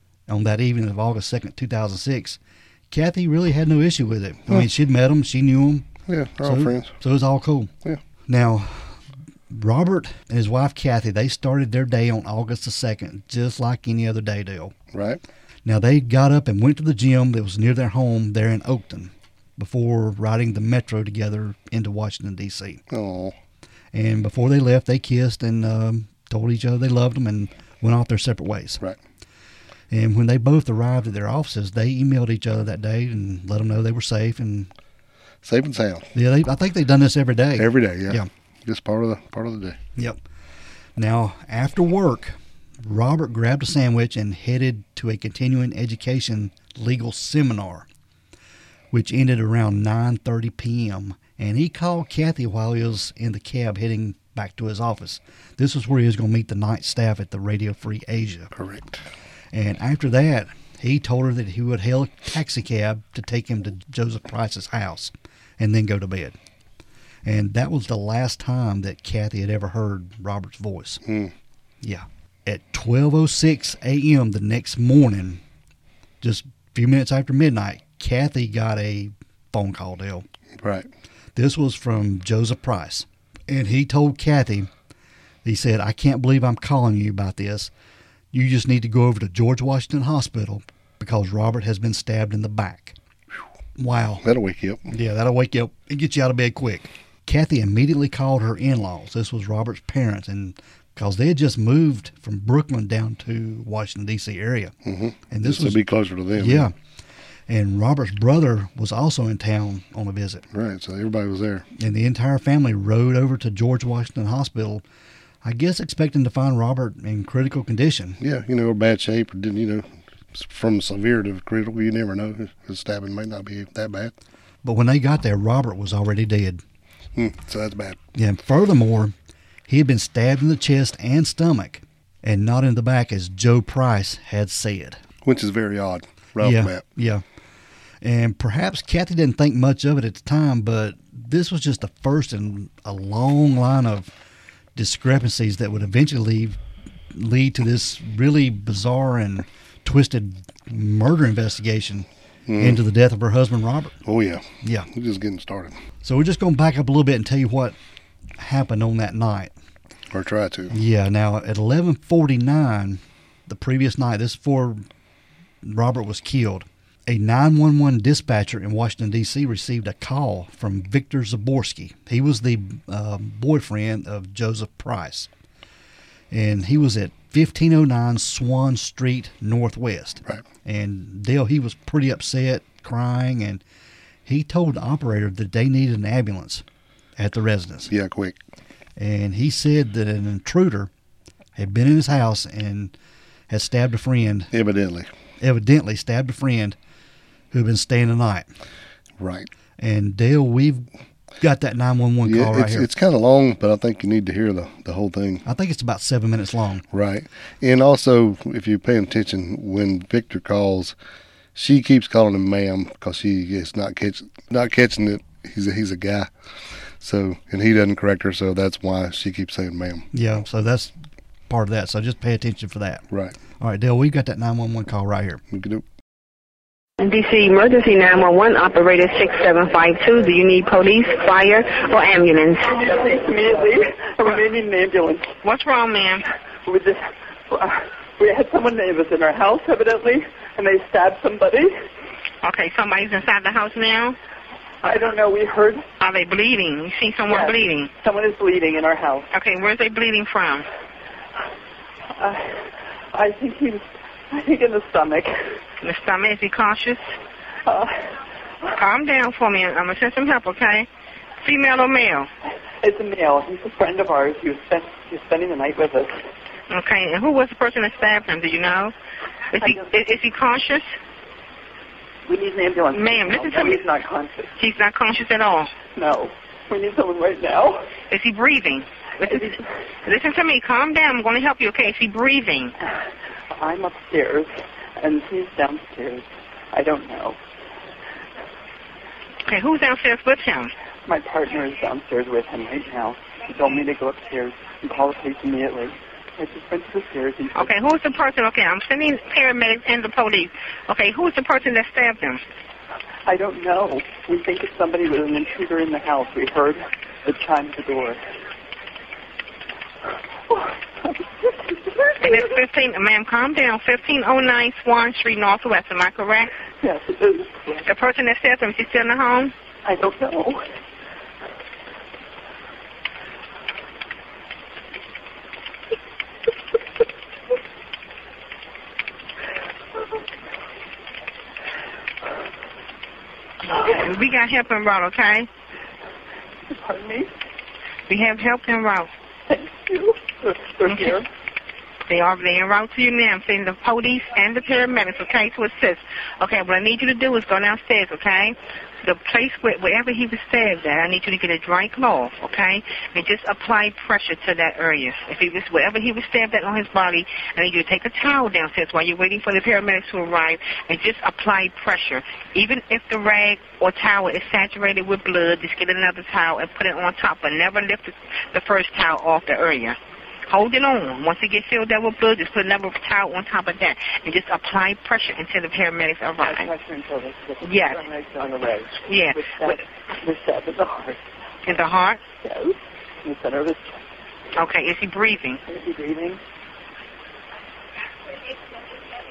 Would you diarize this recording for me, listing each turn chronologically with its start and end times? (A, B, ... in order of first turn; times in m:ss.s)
0:00.3-0:02.4 A
0:02.9-0:05.9 A
0:06.1-0:06.9 B
0:06.4-0:07.7 A
0:08.3-0:09.0 A
0:09.5-0:14.7 A
0:14.9-0:15.2 B
0:15.6-0:22.8 A
0:22.9-0:23.3 B
0:23.9-0:28.8 A
0:29.9-0:34.7 A
0:35.4-0:36.1 B
0:36.1-0:38.3 A
0:37.6-0:39.8 B
0:41.0-0:47.9 A
0:48.9-0:58.5 A
0:58.5-0:59.0 B
0:59.5-1:06.4 A
1:07.2-1:11.0 A
1:11.0-1:11.3 B
1:11.8-1:15.4 A
1:16.2-1:20.2 A
1:20.6-1:20.9 B
1:21.3-1:24.7 A
1:25.4-1:27.7 A
1:28.3-1:33.0 A
1:33.8-1:34.2 A
1:34.2-1:34.9 B
1:34.9-1:44.7 A
1:44.8-1:46.7 B
1:45.3-1:45.8 A
1:46.4-1:46.7 A
1:47.5-1:50.4 A
1:50.5-1:51.6 B
1:51.8-1:54.8 A
1:55.4-1:58.2 A
1:58.2-2:04.1 B
2:04.6-2:06.6 A
2:07.1-2:08.0 B
2:08.1-2:09.1 A
2:09.7-2:15.0 A
2:15.2-2:16.8 B
2:16.4-2:17.2 A
2:18.0-2:24.1 A
2:24.8-2:26.6 A
2:27.1-2:32.1 A
2:32.5-2:32.8 B
2:32.6-2:34.0 A
2:34.0-2:35.8 B
2:34.6-2:34.9 A
2:36.0-2:37.8 A
2:38.4-2:39.5 A
2:40.1-2:40.7 B
2:40.7-2:44.8 A
2:45.6-2:55.3 A
2:56.3-3:03.6 A
3:04.2-3:06.6 A
3:07.2-3:07.9 A
3:07.9-3:08.4 B
3:09.0-3:10.9 A
3:11.6-3:12.9 A
3:13.5-3:14.5 A
3:14.5-3:15.1 B
3:15.4-3:16.8 A
3:17.5-3:18.5 A
3:19.2-3:19.5 B
3:19.8-3:20.9 A
3:21.4-3:22.9 A
3:22.2-3:25.4 B
3:25.4-3:26.8 A
3:26.9-3:30.9 B
3:31.5-3:40.1 B
3:40.1-3:40.9 A
3:41.5-3:43.0 A
3:43.6-3:45.4 A
3:45.5-3:45.8 B
3:47.0-3:52.8 C
3:52.7-3:55.3 D
3:55.4-3:56.2 C
3:56.6-4:01.7 D
4:02.4-4:04.2 C
4:04.8-4:05.8 D
4:06.0-4:07.9 C
4:07.3-4:09.3 D
4:09.3-4:10.7 C
4:12.2-4:15.6 D
4:15.8-4:17.0 C
4:17.6-4:18.1 D
4:18.7-4:20.9 C
4:21.4-4:22.3 C
4:22.8-4:26.2 D
4:26.7-4:28.9 C
4:29.5-4:30.8 C
4:29.6-4:29.9 D
4:32.2-4:34.5 D
4:32.9-4:33.8 C
4:34.6-4:35.7 C
4:35.9-4:37.9 D
4:38.1-4:42.7 C
4:43.5-4:47.4 D
4:49.4-4:50.7 C
4:51.0-4:57.7 D
4:57.6-5:02.4 C
5:03.2-5:08.2 D
5:10.5-5:12.2 D
5:12.2-5:16.5 C
5:16.8-5:17.6 D
5:17.8-5:19.5 C
5:19.8-5:20.6 D
5:33.6-5:35.5 C
5:36.7-5:37.3 D
5:38.1-5:39.1 C
5:39.5-5:41.3 D
5:42.1-6:16.7 C
6:16.4-6:21.2 D
6:17.6-6:18.0 C
6:19.0-6:19.8 C
6:21.6-6:22.2 C
6:22.4-6:24.0 D
6:24.6-6:25.6 C
6:25.7-6:26.4 D